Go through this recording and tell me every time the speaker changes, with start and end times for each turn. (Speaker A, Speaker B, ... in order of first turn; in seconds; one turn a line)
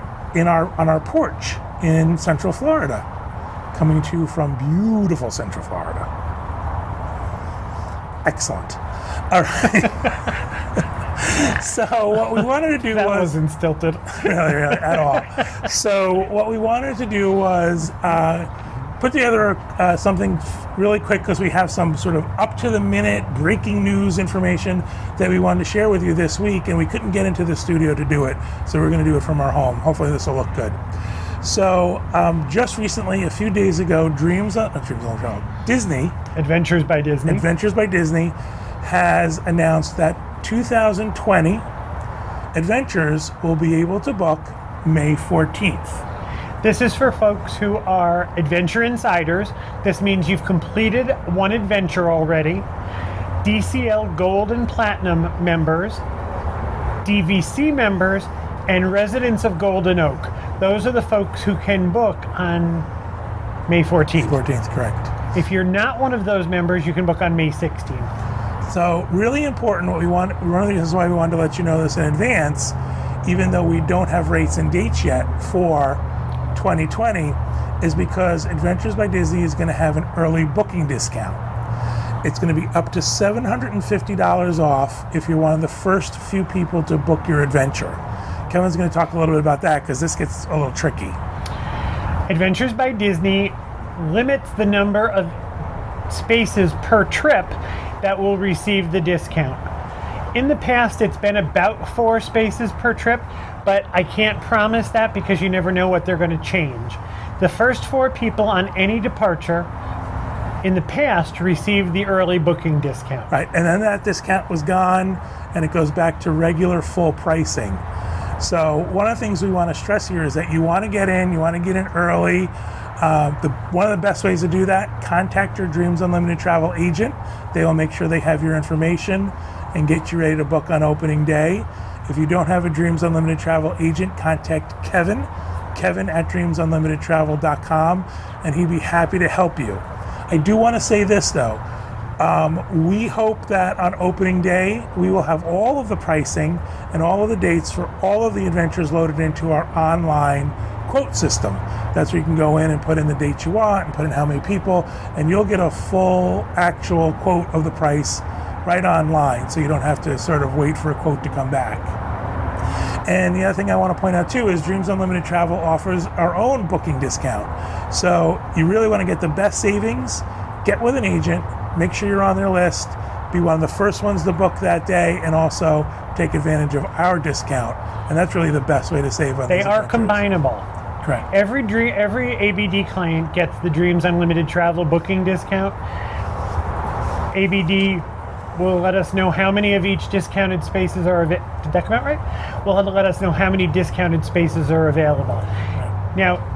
Speaker A: 0.3-3.0
Speaker A: 3.7-6.1
Speaker A: 8.2-13.3
Speaker B: 12.9-15.2
Speaker A: 14.2-30.8
Speaker A: 31.4-36.1
Speaker B: 36.3-37.4
Speaker A: 37.3-41.6
Speaker A: 42.5-46.0
Speaker B: 46.6-52.7
Speaker B: 53.4-56.0
Speaker B: 57.0-62.9
Speaker B: 63.7-64.4
Speaker A: 64.2-65.1
Speaker B: 65.3-68.1
Speaker A: 68.7-81.4
Speaker A: 82.2-91.2
Speaker B: 92.3-95.3
Speaker B: 96.1-99.7
Speaker B: 100.3-109.7
Speaker B: 110.6-113.3
Speaker A: 113.3-117.8
Speaker A: 118.4-141.6
Speaker A: 142.2-161.9
Speaker A: 163.1-180.3
Speaker B: 179.5-180.7
Speaker B: 181.3-185.8
Speaker B: 187.3-195.5
Speaker B: 196.1-196.4